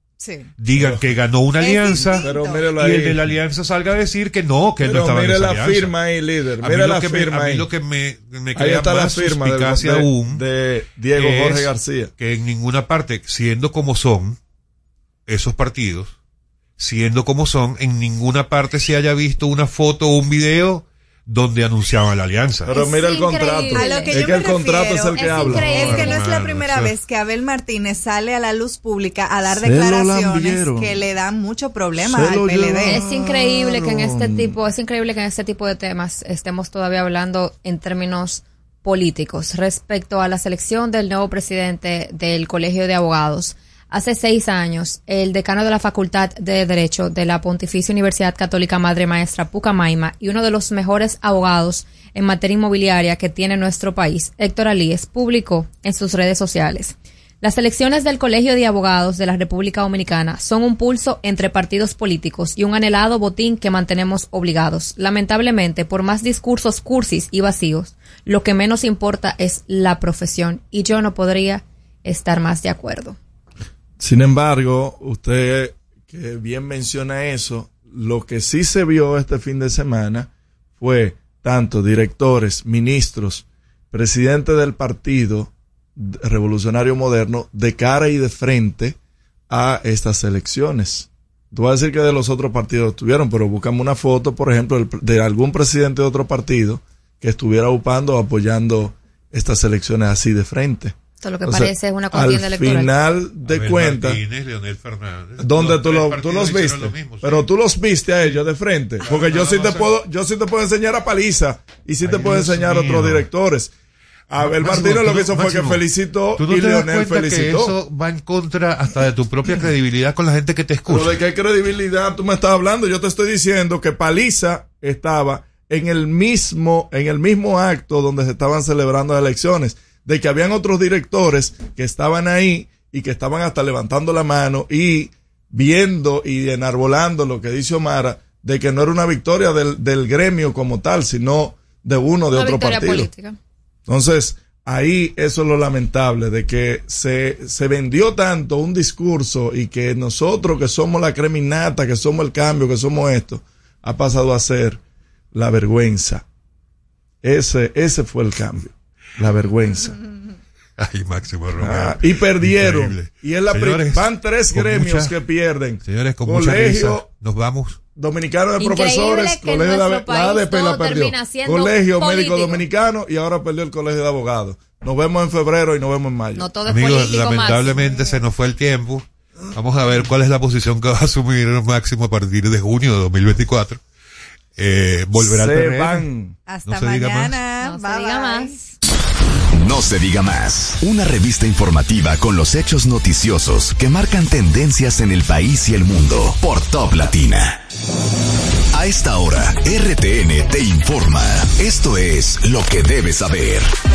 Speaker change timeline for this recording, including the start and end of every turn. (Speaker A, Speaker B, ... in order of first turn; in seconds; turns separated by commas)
Speaker A: 0.2-0.5, Speaker B: 0.6-6.0, Speaker C: 0.8-1.2, Speaker A: 1.6-2.6, Speaker C: 2.2-3.4, Speaker C: 4.8-7.7, Speaker B: 6.6-10.4, Speaker C: 8.5-12.1, Speaker B: 11.1-14.4, Speaker B: 15.3-16.1, Speaker B: 16.8-22.7, Speaker C: 22.6-26.1, Speaker D: 22.7-24.3, Speaker A: 23.7-33.0, Speaker D: 25.1-26.2, Speaker B: 25.5-26.9, Speaker C: 29.5-31.0, Speaker C: 32.0-34.6, Speaker D: 32.9-73.2, Speaker C: 74.0-89.0, Speaker C: 89.5-104.2, Speaker D: 101.2-102.9, Speaker B: 103.5-107.5, Speaker C: 105.4-113.7, Speaker B: 109.0-109.9, Speaker B: 112.0-113.3, Speaker C: 114.3-117.7, Speaker B: 114.4-115.8, Speaker B: 116.4-121.2, Speaker C: 120.9-143.1, Speaker D: 142.3-143.4, Speaker C: 143.9-154.8, Speaker C: 155.3-156.2, Speaker C: 157.2-159.9, Speaker B: 160.8-165.1, Speaker C: 161.6-167.1, Speaker B: 165.8-167.8, Speaker C: 168.0-176.5, Speaker D: 168.6-172.7, Speaker D: 176.3-178.2, Speaker B: 176.7-183.8, Speaker B: 184.6-186.1, Speaker C: 185.2-186.4, Speaker A: 186.5-188.8, Speaker B: 186.7-187.4, Speaker D: 187.6-188.6, Speaker E: 189.5-197.6, Speaker E: 198.7-203.7